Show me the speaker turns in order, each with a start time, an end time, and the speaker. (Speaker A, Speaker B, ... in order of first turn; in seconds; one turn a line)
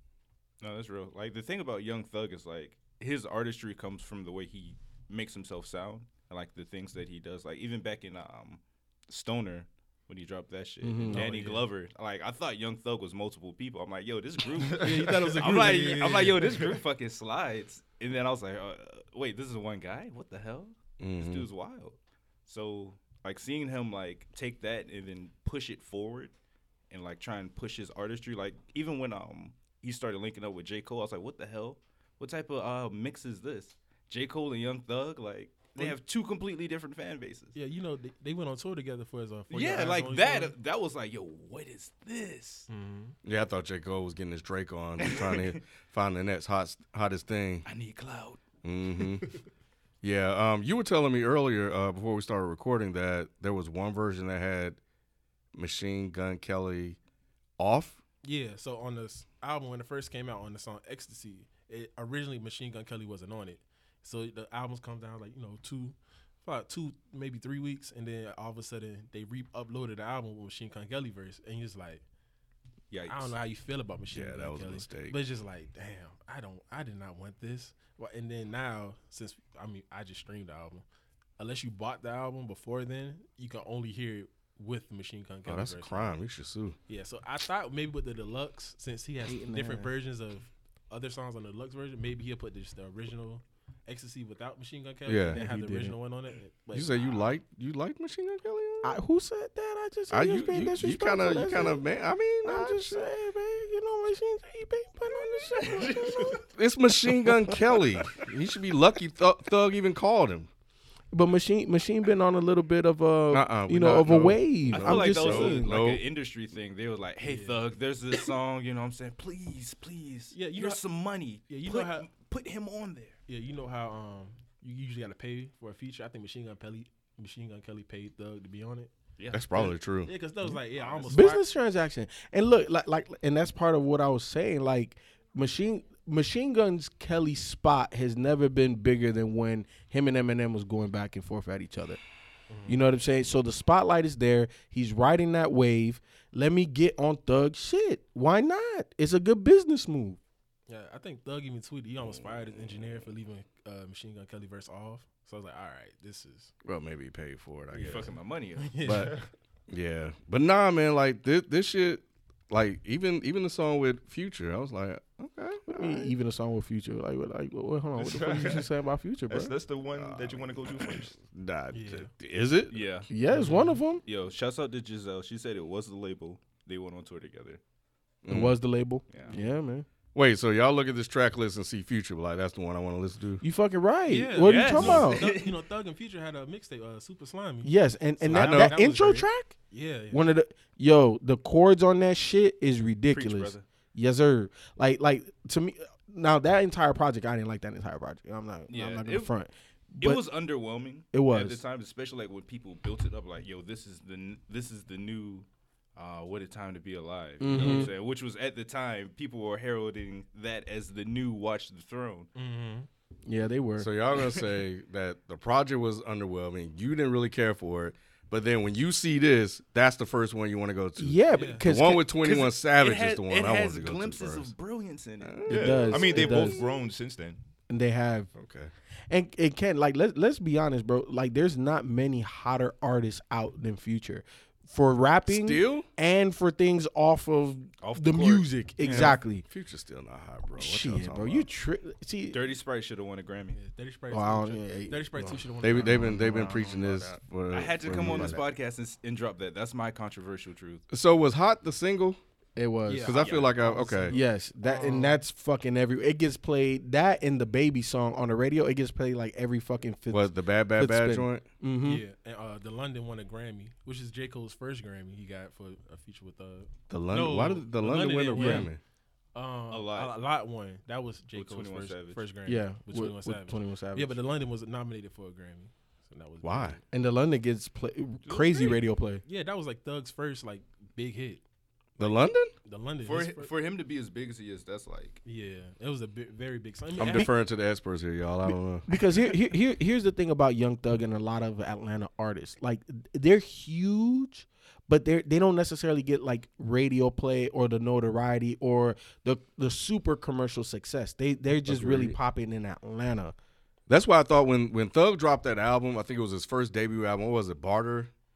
Speaker A: 0.6-26.3
Speaker B: 10.8-11.3
Speaker C: 11.1-11.7
Speaker D: 14.7-15.0
Speaker C: 14.7-16.5
Speaker D: 16.2-16.7
Speaker E: 21.0-21.5
Speaker A: 26.9-37.5
Speaker C: 37.5-40.5
Speaker A: 39.5-42.7
Speaker C: 42.7-43.1
Speaker E: 43.2-47.7
Speaker A: 45.0-45.6
Speaker A: 47.6-48.4
Speaker E: 48.6-49.3
Speaker E: 50.0-54.8
Speaker E: 55.5-57.0
Speaker E: 57.6-58.0
Speaker C: 58.2-72.0
Speaker A: 72.9-73.3
Speaker C: 73.0-80.8
Speaker E: 74.1-75.2
Speaker C: 81.4-86.1
Speaker E: 85.5-86.8
Speaker C: 86.9-97.3
Speaker B: 89.2-89.9
Speaker E: 95.0-95.4
Speaker B: 95.3-95.9
Speaker E: 96.7-99.0
Speaker B: 98.8-101.8
Speaker E: 100.1-103.1
Speaker B: 102.4-106.4
Speaker A: 105.1-106.4
Speaker E: 106.5-110.5
Speaker B: 111.1-115.7
Speaker E: 113.3-116.0
Speaker A: 114.7-123.2
Speaker C: 117.2-117.6
Speaker C: 120.3-120.8
Speaker C: 121.5-122.1
Speaker C: 123.3-128.9
Speaker A: 129.2-129.5
Speaker E: 129.3-130.1
Speaker C: 129.5-131.4
Speaker A: 130.8-131.2
Speaker B: 131.1-142.0
Speaker C: 142.5-142.8
Speaker B: 142.7-150.2
Speaker C: 150.7-156.5
Speaker E: 152.0-152.9
Speaker E: 156.6-158.1
Speaker C: 157.7-159.3
Speaker A: 157.8-159.0
Speaker E: 158.8-159.1
Speaker E: 159.7-166.1
Speaker B: 165.7-169.6
Speaker D: 168.0-168.7
Speaker D: 169.3-171.2
Speaker E: 169.9-172.8
Speaker C: 171.7-172.1
Speaker A: 172.7-173.1
Speaker B: 173.1-174.0
Speaker C: 173.3-173.8
Speaker A: 174.0-177.6
Speaker E: 178.2-178.6
Speaker B: 178.3-179.8
Speaker A: 179.1-179.3
Speaker E: 180.1-183.4
Speaker B: 183.4-185.3
Speaker C: 184.1-190.3
Speaker A: 184.4-185.6
Speaker B: 187.6-189.6
Speaker E: 188.3-188.8
Speaker B: 190.1-200.2
Speaker A: 193.1-193.7
Speaker A: 198.7-199.3
Speaker A: 200.0-212.3
Speaker B: 201.1-201.6
Speaker B: 207.4-207.9
Speaker C: 207.5-207.9
Speaker C: 212.3-212.9
Speaker B: 213.2-213.9
Speaker E: 213.8-224.5
Speaker B: 221.0-222.1
Speaker C: 221.3-221.6
Speaker A: 222.2-225.5
Speaker E: 225.2-226.5
Speaker B: 225.5-226.7
Speaker D: 225.5-227.4
Speaker B: 227.7-228.3
Speaker E: 228.3-228.7
Speaker B: 229.1-239.4
Speaker E: 235.3-235.9
Speaker A: 237.8-239.2
Speaker E: 238.8-241.5
Speaker B: 240.6-242.4
Speaker A: 242.3-243.6
Speaker C: 243.5-246.6
Speaker B: 244.1-247.1
Speaker E: 245.6-248.4
Speaker A: 247.5-250.8
Speaker B: 248.0-248.4
Speaker E: 250.9-252.2
Speaker B: 252.6-253.2
Speaker C: 252.8-255.2
Speaker E: 253.0-254.2
Speaker A: 253.2-253.5
Speaker B: 254.1-262.0
Speaker E: 260.1-261.4
Speaker C: 261.8-268.7
Speaker E: 266.9-268.8
Speaker B: 268.4-268.7
Speaker C: 269.3-276.8
Speaker A: 269.7-270.1
Speaker A: 271.3-272.2
Speaker B: 272.4-274.2
Speaker E: 276.4-276.8
Speaker B: 276.9-279.2
Speaker A: 278.2-278.8
Speaker C: 279.2-281.4
Speaker E: 282.0-282.5
Speaker C: 282.0-283.5
Speaker A: 283.0-285.2
Speaker C: 285.2-287.3
Speaker E: 287.0-288.9
Speaker B: 287.0-287.3
Speaker B: 288.4-303.3
Speaker E: 301.6-302.2
Speaker E: 303.9-308.1